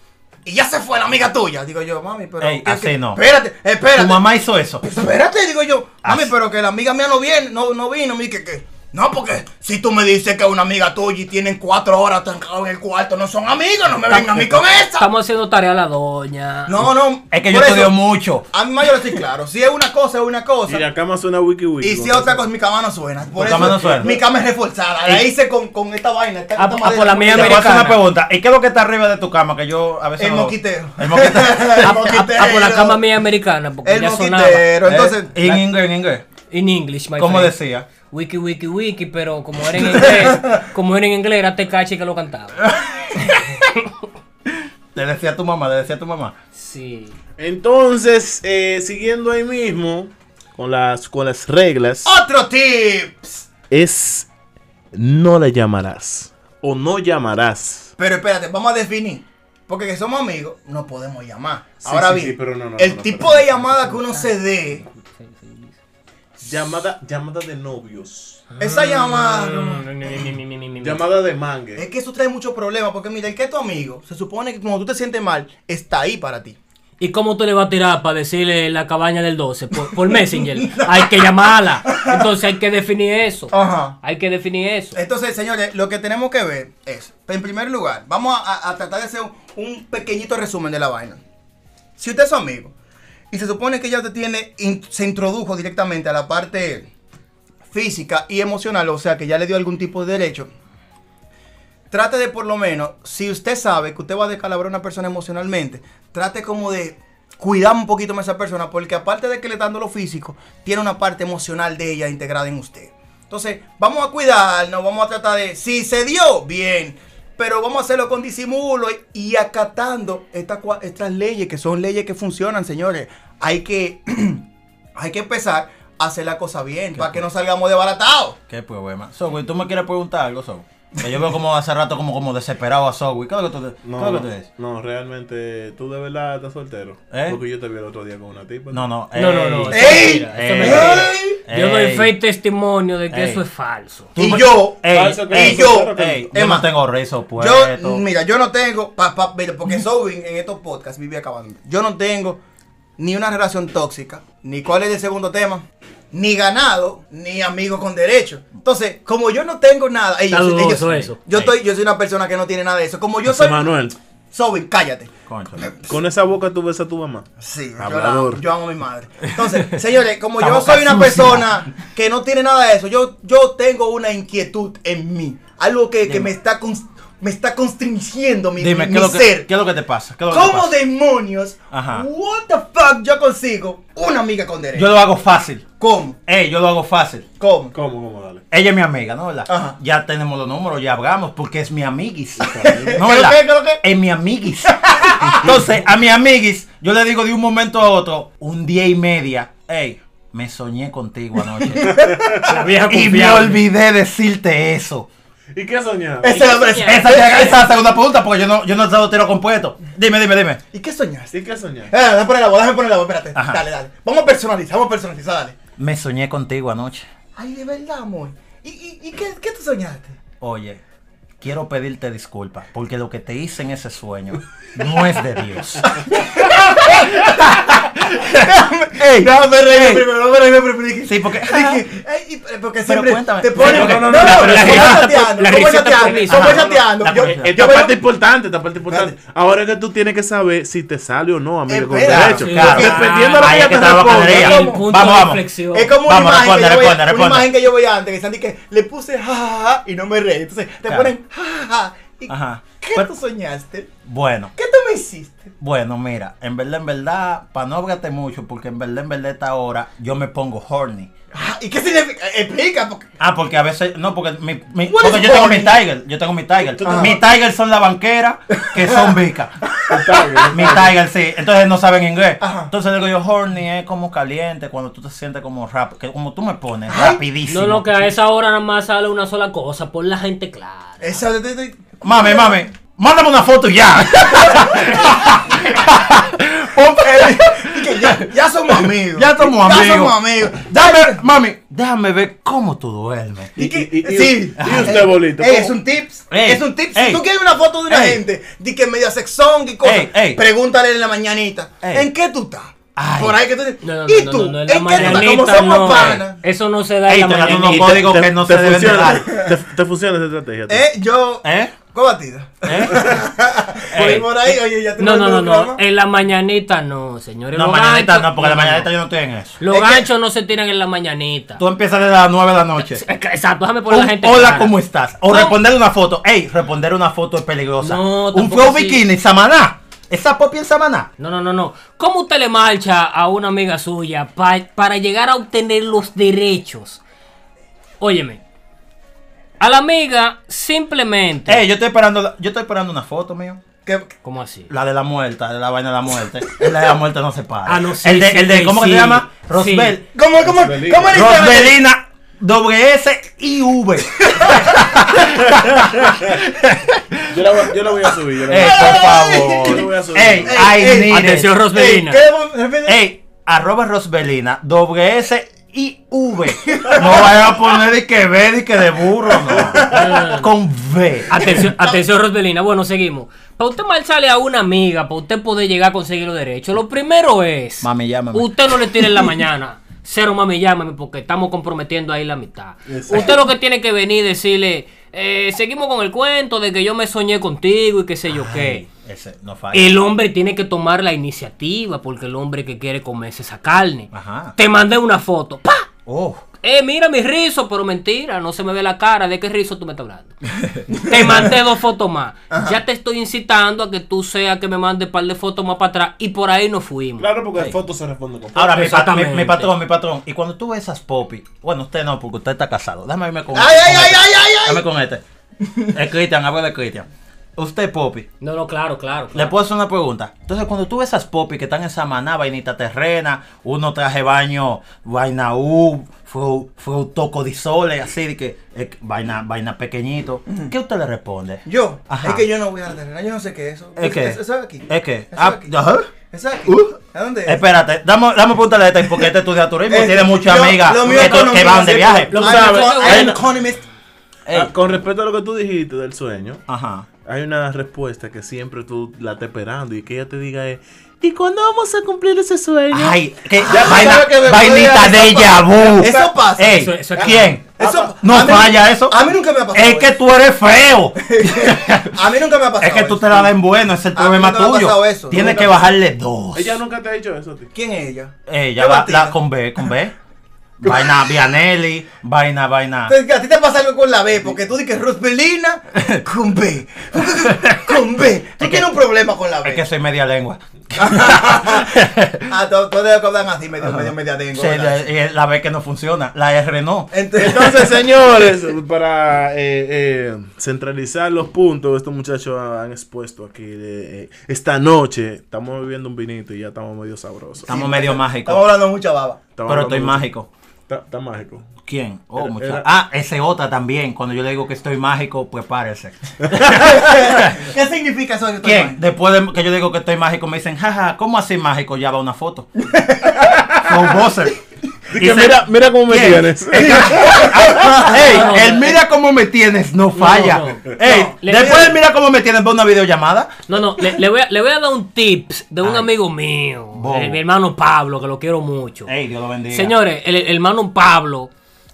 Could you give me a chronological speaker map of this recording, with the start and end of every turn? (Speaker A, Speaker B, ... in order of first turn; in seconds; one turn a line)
Speaker A: 0.4-4.2
Speaker B: 2.4-3.2
Speaker B: 3.9-4.8
Speaker A: 4.8-15.1
Speaker B: 6.0-6.3
Speaker C: 14.1-16.8
Speaker A: 16.7-18.0
Speaker B: 17.3-18.4
Speaker A: 18.5-20.9
Speaker D: 20.7-22.5
Speaker A: 21.8-27.7
Speaker B: 23.4-24.2
Speaker C: 26.6-28.0
Speaker B: 27.2-32.0
Speaker A: 30.2-33.0
Speaker C: 31.8-34.7
Speaker A: 33.8-35.6
Speaker B: 34.8-36.2
Speaker C: 36.5-37.5
Speaker B: 37.2-37.9
Speaker C: 38.1-42.6
Speaker A: 40.1-40.5
Speaker B: 43.1-43.4
Speaker B: 44.9-46.3
Speaker C: 46.5-47.1
Speaker D: 47.4-52.1
Speaker A: 52.0-53.4
Speaker D: 53.7-54.3
Speaker D: 54.9-57.9
Speaker A: 58.0-64.8
Speaker D: 61.8-63.8
Speaker C: 63.9-64.3
Speaker C: 64.9-65.8
Speaker D: 66.4-68.5
Speaker C: 68.5-71.0
Speaker A: 68.6-69.8
Speaker D: 70.8-71.8
Speaker A: 71.8-76.6
Speaker C: 77.0-85.0
Speaker A: 80.0-81.3
Speaker A: 81.8-82.3
Speaker A: 83.5-84.0
Speaker A: 84.9-91.2
Speaker A: 92.0-92.7
Speaker A: 93.3-96.9
Speaker A: 97.7-100.5
Speaker A: 101.9-124.4
Speaker A: 124.9-128.4
Speaker B: 126.9-127.2
Speaker B: 128.5-134.4
Speaker D: 133.8-138.8
Speaker B: 137.1-137.4
Speaker B: 138.7-142.1
Speaker C: 139.1-144.1
Speaker A: 139.7-141.4
Speaker B: 143.1-143.4
Speaker B: 144.1-148.0
Speaker A: 144.2-146.7
Speaker D: 144.9-146.3
Speaker A: 147.4-152.4
Speaker A: 153.0-163.7
Speaker C: 160.3-161.2
Speaker B: 161.3-161.5
Speaker D: 163.2-163.9
Speaker A: 164.3-165.9
Speaker B: 165.3-165.7
Speaker D: 165.9-167.2
Speaker A: 167.4-179.5
Speaker D: 167.8-168.4
Speaker B: 169.4-169.7
Speaker B: 170.4-171.5
Speaker B: 176.0-176.3
Speaker B: 178.6-180.7
Speaker A: 180.3-184.9
Speaker B: 181.7-182.1
Speaker B: 184.7-185.6
Speaker A: 185.8-186.2
Speaker B: 186.3-187.2
Speaker A: 187.4-187.7
Speaker D: 187.7-188.4
Speaker B: 188.5-202.2
Speaker A: 189.5-189.8
Speaker D: 192.4-193.1
Speaker A: 192.6-193.8
Speaker A: 194.9-195.5
Speaker A: 201.7-202.4
Speaker C: 202.4-203.6
Speaker B: 202.9-205.1
Speaker D: 205.5-206.5
Speaker A: 206.2-207.7
Speaker C: 206.3-207.6
Speaker B: 206.8-210.6
Speaker A: 210.7-211.3
Speaker D: 211.3-211.9
Speaker A: 211.9-215.6
Speaker B: 213.3-213.6
Speaker B: 215.8-217.1
Speaker A: 217.3-220.2
Speaker B: 220.4-220.8
Speaker B: 221.4-230.1
Speaker A: 225.9-238.0
Speaker B: 231.1-231.8
Speaker B: 232.8-235.1
Speaker D: 233.5-235.0
Speaker C: 234.1-236.7
Speaker D: 235.6-244.5
Speaker B: 236.2-237.8
Speaker A: 241.7-243.1
Speaker B: 242.0-245.4
Speaker C: 242.4-245.9
Speaker A: 243.7-253.9
Speaker B: 246.0-247.5
Speaker B: 250.9-251.1
Speaker B: 252.3-253.1
Speaker B: 254.1-254.5
Speaker A: 254.5-255.5
Speaker B: 255.6-261.1
Speaker A: 261.3-263.1
Speaker B: 263.2-269.6
Speaker A: 264.9-265.8
Speaker D: 266.8-267.2
Speaker A: 266.8-267.1
Speaker A: 268.8-269.1
Speaker A: 269.8-270.7
Speaker D: 269.9-270.9
Speaker B: 270.5-277.9
Speaker A: 272.4-272.7
Speaker A: 276.9-277.2
Speaker C: 277.5-281.2
Speaker A: 281.0-282.6
Speaker B: 282.0-293.5
Speaker A: 284.3-285.3
Speaker A: 287.0-291.2
Speaker D: 293.6-295.8
Speaker A: 293.6-306.4
Speaker B: 294.6-295.0
Speaker B: 296.3-297.2
Speaker B: 297.9-298.2
Speaker B: 299.8-300.4
Speaker B: 301.8-302.1
Speaker B: 302.9-303.4
Speaker C: 303.8-308.1
Speaker B: 305.0-305.4
Speaker B: 307.1-309.4
Speaker D: 307.5-310.9
Speaker A: 310.7-315.8
Speaker B: 311.4-311.7
Speaker B: 312.6-313.2
Speaker B: 313.9-314.3
Speaker C: 315.0-318.9
Speaker B: 317.5-319.6
Speaker C: 319.6-321.6
Speaker A: 319.7-320.1
Speaker B: 321.6-323.0
Speaker C: 322.8-324.7
Speaker B: 323.9-331.1
Speaker C: 325.3-325.6
Speaker C: 327.8-329.0
Speaker C: 331.2-337.0
Speaker C: 338.0-338.4
Speaker C: 339.6-341.6
Speaker B: 341.5-343.6
Speaker A: 343.8-344.1
Speaker C: 344.2-344.7
Speaker B: 344.7-350.0
Speaker C: 347.7-350.0
Speaker A: 350.1-351.8
Speaker D: 350.4-351.3
Speaker B: 351.1-357.4
Speaker A: 354.2-354.8
Speaker D: 355.4-356.4
Speaker D: 357.3-360.7
Speaker B: 358.5-361.5
Speaker A: 358.5-359.9
Speaker A: 360.5-363.0
Speaker C: 361.1-362.2
Speaker B: 362.9-371.7
Speaker A: 366.7-367.3
Speaker A: 369.5-370.0
Speaker C: 369.9-370.5
Speaker C: 371.3-388.8
Speaker A: 371.7-372.0
Speaker B: 377.8-379.0
Speaker D: 382.9-383.4
Speaker B: 388.3-390.0
Speaker C: 389.7-395.9
Speaker B: 394.1-394.5
Speaker B: 396.1-396.4
Speaker C: 396.6-400.3
Speaker B: 400.5-401.4
Speaker C: 400.9-407.3
Speaker A: 402.5-402.8
Speaker D: 407.2-408.8
Speaker B: 408.5-415.2
Speaker C: 408.7-409.7
Speaker A: 413.5-414.8
Speaker A: 415.6-415.9
Speaker B: 415.9-418.3
Speaker C: 418.4-419.5
Speaker B: 419.3-432.4
Speaker A: 430.5-430.7
Speaker A: 431.6-435.7
Speaker B: 434.0-436.1
Speaker A: 436.3-437.6
Speaker B: 436.6-442.3
Speaker A: 439.9-443.9
Speaker D: 441.0-443.4
Speaker C: 442.3-443.4
Speaker B: 444.4-444.7
Speaker D: 444.5-446.6
Speaker B: 446.7-447.1
Speaker D: 447.2-456.3
Speaker B: 452.9-459.2
Speaker A: 453.6-460.1
Speaker C: 456.6-457.5
Speaker D: 457.8-458.1
Speaker B: 459.7-462.1
Speaker A: 461.3-463.5
Speaker B: 462.8-466.8
Speaker A: 464.1-465.6
Speaker D: 465.3-465.8
Speaker D: 466.5-467.7
Speaker A: 467.7-469.3
Speaker B: 468.5-470.1
Speaker B: 470.8-473.1
Speaker A: 473.1-479.8
Speaker B: 477.5-478.0
Speaker B: 478.6-478.9
Speaker B: 479.6-482.5
Speaker A: 480.9-485.0
Speaker B: 483.8-487.1
Speaker A: 487.1-488.0
Speaker D: 487.4-497.8
Speaker A: 497.7-499.4
Speaker B: 497.7-498.6
Speaker D: 499.5-500.2
Speaker B: 499.6-500.5
Speaker D: 500.9-501.7
Speaker B: 501.8-507.7
Speaker D: 502.4-502.9
Speaker A: 506.6-509.0
Speaker B: 508.6-512.7
Speaker A: 512.8-513.7
Speaker D: 513.4-513.8
Speaker B: 513.8-514.6
Speaker D: 515.1-517.7
Speaker B: 515.2-523.6
Speaker A: 516.7-518.5
Speaker C: 518.1-519.0
Speaker C: 520.2-521.9
Speaker A: 521.0-521.9
Speaker C: 523.7-529.1
Speaker B: 525.8-526.1
Speaker B: 526.9-527.4
Speaker B: 529.0-530.0
Speaker C: 529.7-531.5